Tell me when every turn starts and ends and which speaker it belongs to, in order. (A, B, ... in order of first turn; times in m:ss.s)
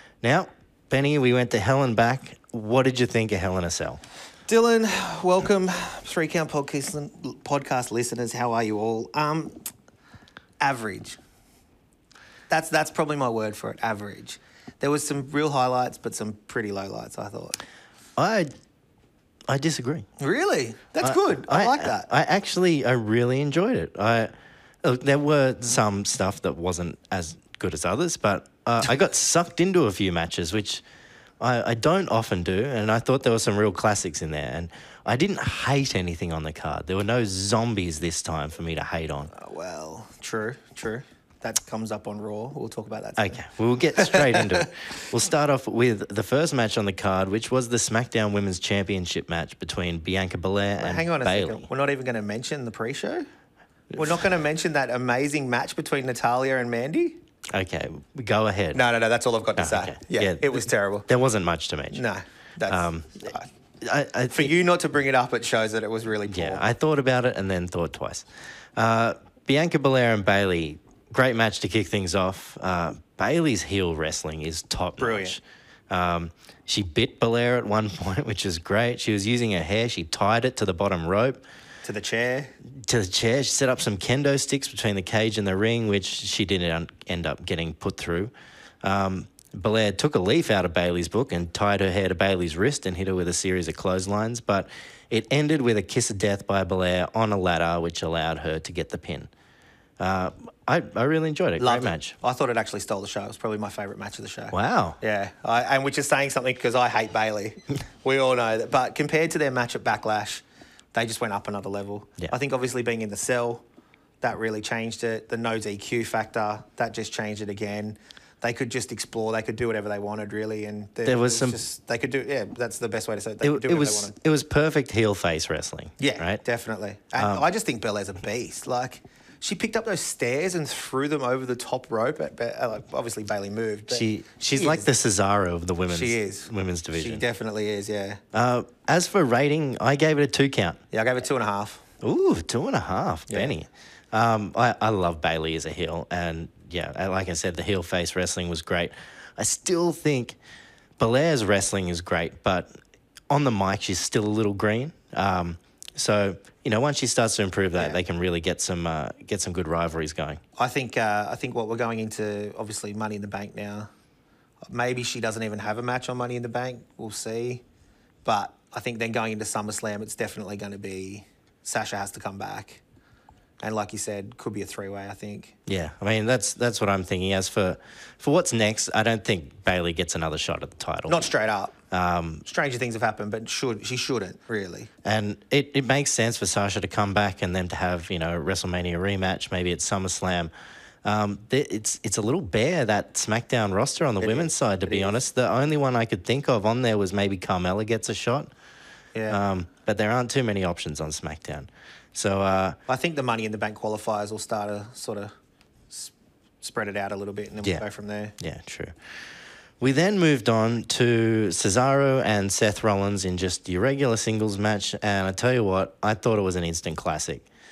0:00.2-0:04.0 A
0:04.5-0:09.6 B
0:10.6-0:11.2 B
0:12.5-0:17.6 B
0:18.2-0:18.5 A
0:19.5-0:20.0 A
0:20.2-0:22.1 B
0:21.0-0:24.3 A
0:24.8-0:30.8 A
0:31.4-0:39.3 A
0:39.3-0:43.4 B
0:43.2-0:51.6 A
0:44.0-0:44.7 B
0:50.8-0:53.3 B
0:53.9-0:57.2 B
0:57.5-0:58.8 A
0:58.7-1:01.1 B
0:59.6-1:02.0 A
1:01.9-1:03.5 B
1:02.7-1:04.5 A
1:04.3-1:06.7 B
1:06.3-1:21.4 A
1:15.0-1:15.4 B
1:21.8-1:22.5 B
1:22.8-1:28.3 A
1:28.8-1:39.3 A
1:40.0-1:42.2 A
1:41.6-1:50.4 B
1:44.5-1:45.0 A
1:50.9-1:53.6 B
1:54.2-2:04.1 B
2:01.0-2:01.6 A
2:03.4-2:06.4 A
2:06.0-2:14.9 B
2:07.2-2:07.4 A
2:13.9-2:17.2 A
2:15.9-2:18.2 B
2:18.3-2:20.8 A
2:20.9-2:21.8 B
2:22.0-2:30.4 A
2:23.3-2:23.5 B
2:31.0-2:32.7 A
2:33.3-2:40.4 A
2:40.6-2:43.9 B
2:44.6-2:47.6 B
2:48.2-2:52.8 B
2:53.6-2:55.5 B
2:55.7-3:01.3 A
3:01.1-3:01.7 B
3:01.9-3:02.4 A
3:02.4-3:04.9 B
3:05.0-3:10.5 A
3:11.0-3:18.5 A
3:14.2-3:15.2 B
3:19.1-3:19.4 B
3:19.3-3:22.8 A
3:22.9-3:25.3 B
3:25.9-3:28.3 B
3:28.4-3:29.0 A
3:29.8-3:37.4 A